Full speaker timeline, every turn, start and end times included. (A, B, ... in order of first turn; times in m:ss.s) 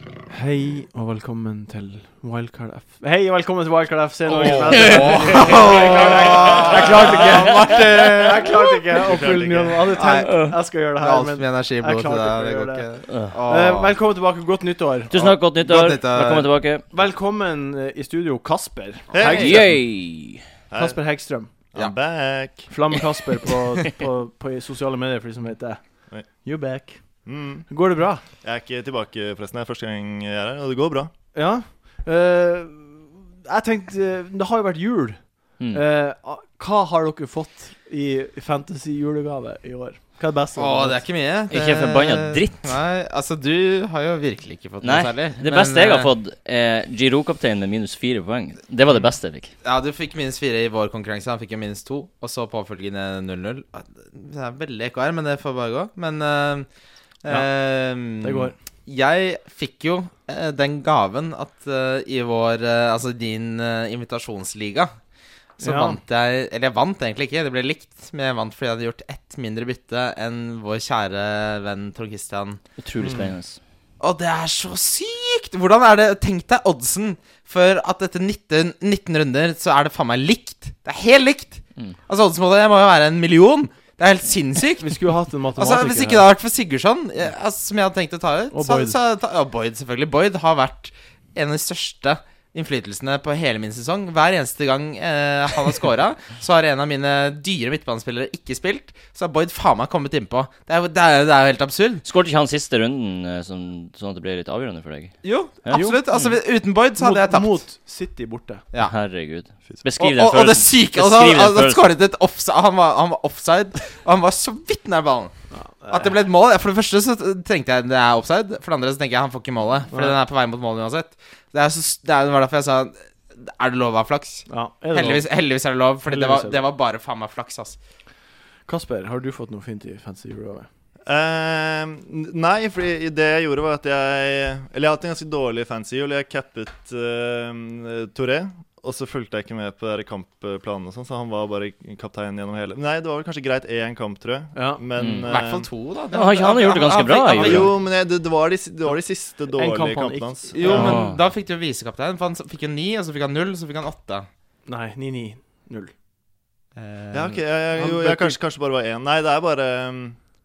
0:00.3-0:12.9 A
0:04.3-0:08.5 B
0:04.7-0:05.3 C
0:08.9-0:10.0 D
0:10.0-0:13.9 B
0:10.2-0:10.6 C
0:13.1-0:13.4 C
0:13.4-0:15.1 A
0:15.1-0:16.8 C
0:15.2-0:16.5 B
0:16.9-0:19.8 A
0:19.1-0:19.8 D
0:19.2-0:20.4 C
0:20.7-0:21.0 D
0:20.7-0:21.5 A
0:21.7-0:22.7 D
0:22.7-0:28.2 A
0:27.2-0:27.7 D
0:28.2-0:31.1 D
0:31.3-0:41.0 A
0:40.6-0:46.1 B
0:41.5-0:42.8 C
0:44.8-0:49.5 C
0:49.6-0:56.7 B
0:57.2-1:04.9 B
0:58.0-0:58.6 A
1:05.6-1:12.6 B
1:05.6-1:06.0 A
1:12.8-1:13.6 C
1:13.0-1:13.3 D
1:14.0-1:42.0 B
1:24.8-1:26.3 A
1:28.5-1:29.0 A
1:42.0-1:45.8 C
1:45.2-1:47.6 B
1:45.7-1:46.3 A
1:47.0-1:48.6 A
1:48.8-1:51.8 C
1:50.0-2:07.8 B
1:55.5-1:56.1 A
1:59.9-2:00.2 A
2:04.5-2:05.3 A
2:06.1-2:06.6 A
2:08.6-2:10.7 A
2:11.0-2:25.7 D
2:24.5-2:24.8 A
2:25.0-2:25.3 C
2:25.2-2:27.7 B
2:26.1-2:27.7 C
2:27.3-2:31.0 D
2:29.5-2:30.8 A
2:30.5-2:34.3 B
2:30.6-2:31.2 C
2:34.6-2:35.9 A
2:36.8-2:37.4 B
2:37.1-2:40.2 D
2:37.7-2:38.4 A